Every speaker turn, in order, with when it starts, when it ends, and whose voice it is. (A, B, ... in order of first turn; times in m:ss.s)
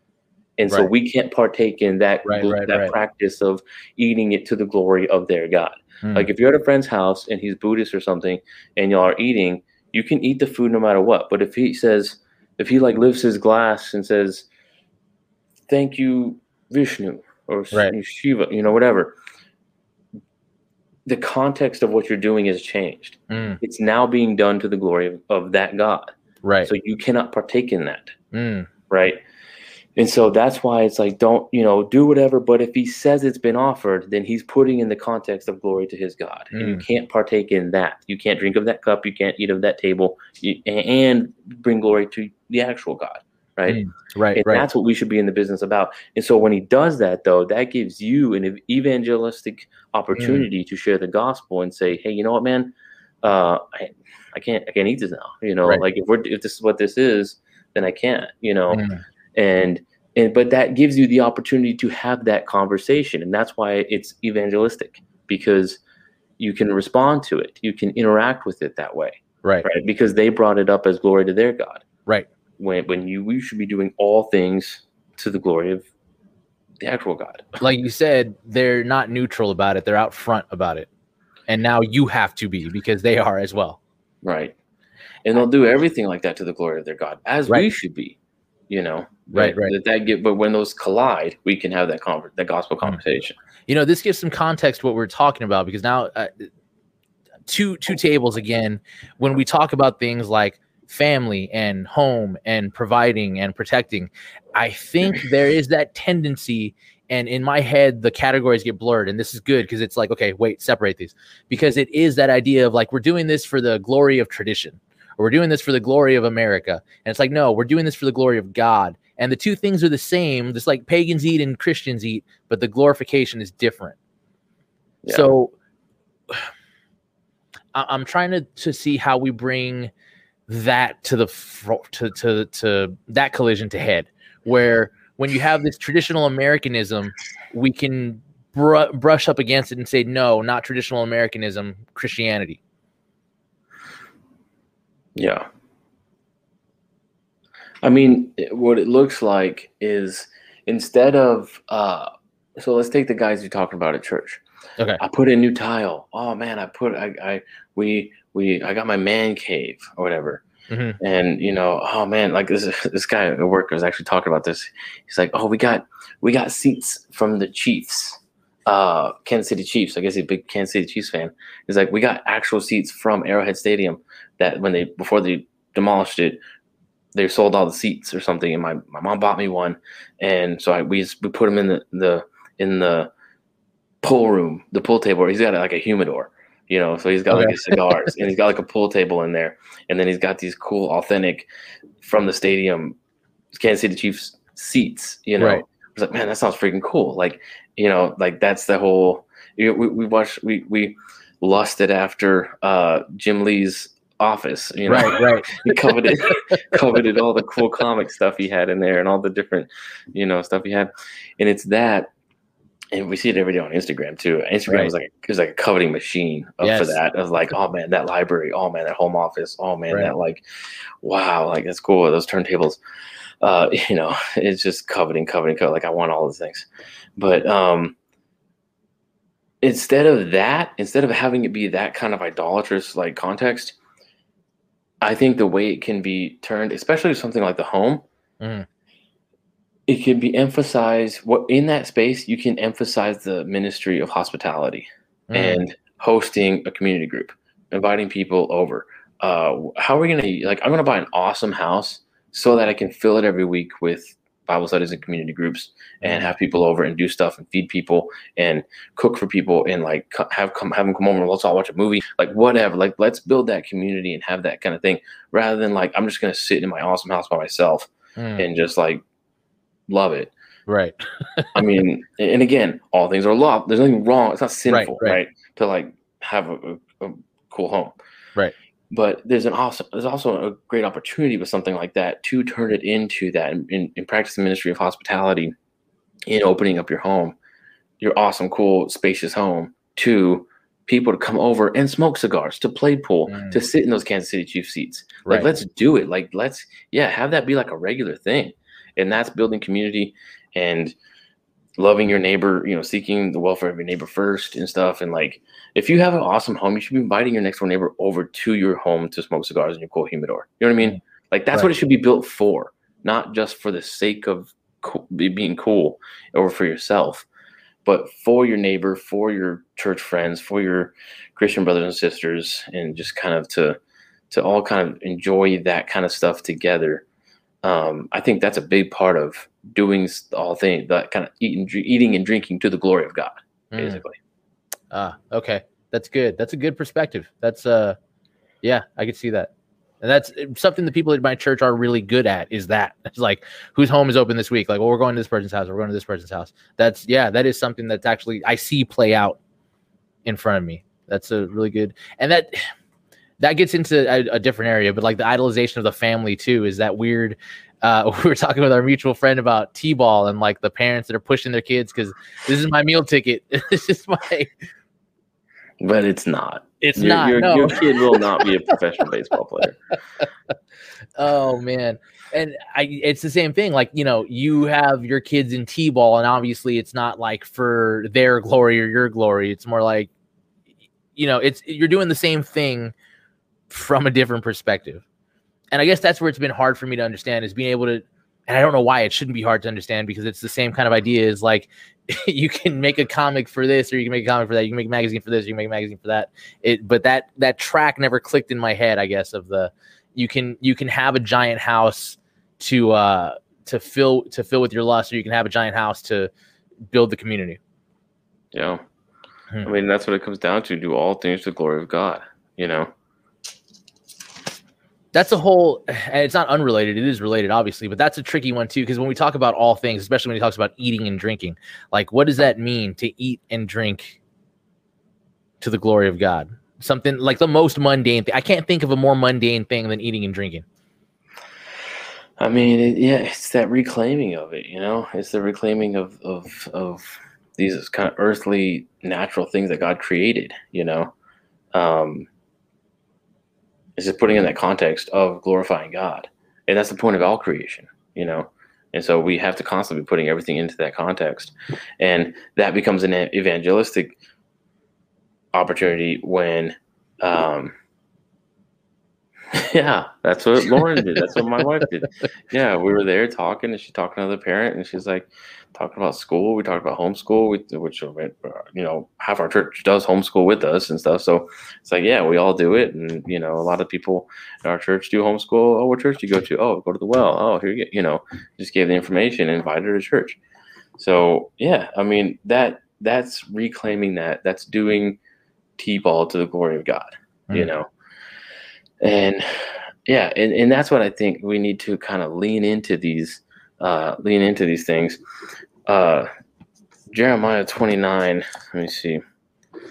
0:00.6-0:14.5 A
0:02.3-0:03.0 B
0:06.0-0:06.3 B
0:15.7-0:19.2 A
0:21.1-0:26.1 A
0:23.3-0:23.6 B
0:26.4-0:26.7 B
0:26.7-0:28.1 A
0:28.3-0:28.7 B
0:28.9-0:29.2 A
0:30.0-0:43.8 A
0:36.5-0:36.9 B
0:43.7-0:44.7 B
0:44.3-1:05.8 A
0:50.2-0:50.5 B
0:58.7-0:59.0 B
1:06.4-1:11.8 A
1:09.4-1:09.7 B
1:12.6-1:15.9 A
1:16.8-1:17.5 A
1:17.6-1:20.9 B
1:21.5-1:23.8 B
1:24.2-1:24.6 A
1:25.2-1:28.2 A
1:28.7-1:33.4 A
1:29.3-1:29.7 B
1:33.7-1:36.5 B
1:37.5-2:04.0 B
2:05.0-2:05.3 A
2:05.1-2:05.5 B
2:07.7-2:09.9 B
2:10.5-2:22.6 B
2:25.2-2:25.4 A
2:27.8-2:34.4 A
2:35.0-2:40.4 A
2:40.7-2:41.0 B
2:41.0-2:56.4 A
2:57.2-3:03.1 A
3:04.0-3:11.5 A
3:07.3-3:07.9 B
3:12.0-3:13.0 A
3:13.5-3:32.1 A
3:24.9-3:25.8 B
3:26.3-3:26.6 B
3:32.9-3:40.4 A
3:36.6-3:37.0 B
3:41.0-3:42.8 A
3:43.4-3:48.0 A
3:49.6-3:53.8 A
3:55.0-3:58.0 A
3:58.4-3:58.7 B
3:59.9-4:29.0 A
4:05.3-4:05.7 B
4:16.0-4:16.3 B
4:28.2-4:28.5 B
4:29.9-4:30.3 A
4:30.7-4:31.5 B
4:31.6-4:37.9 A
4:34.7-4:35.2 B
4:38.9-4:45.5 A
4:46.3-4:47.4 A
4:48.0-5:01.0 A
4:53.3-4:53.6 B
5:01.8-5:17.3 A
5:17.8-5:23.8 A
5:24.3-5:27.0 A
5:27.6-5:34.2 A
5:33.7-5:34.0 B
5:34.9-5:38.0 B
5:38.6-5:39.5 B
5:40.0-5:49.4 B
5:50.3-5:52.6 B
5:53.4-6:04.5 B
6:05.8-6:09.8 A
6:06.8-6:08.4 B
6:11.2-6:20.1 B
6:21.2-6:22.9 B
6:23.7-6:25.0 B
6:25.7-6:46.3 B
6:46.9-6:47.6 B
6:48.5-6:48.8 A
6:49.6-6:52.9 A
6:55.1-7:04.2 B
7:05.6-7:10.6 B
7:12.4-7:21.1 A
7:21.7-7:22.3 A
7:24.0-7:34.2 A
7:35.5-7:37.7 A
7:39.5-8:00.4 A
8:01.0-8:05.2 A
8:05.8-8:07.9 A
8:09.0-8:15.2 A
8:15.9-8:16.3 A
8:17.1-8:19.2 A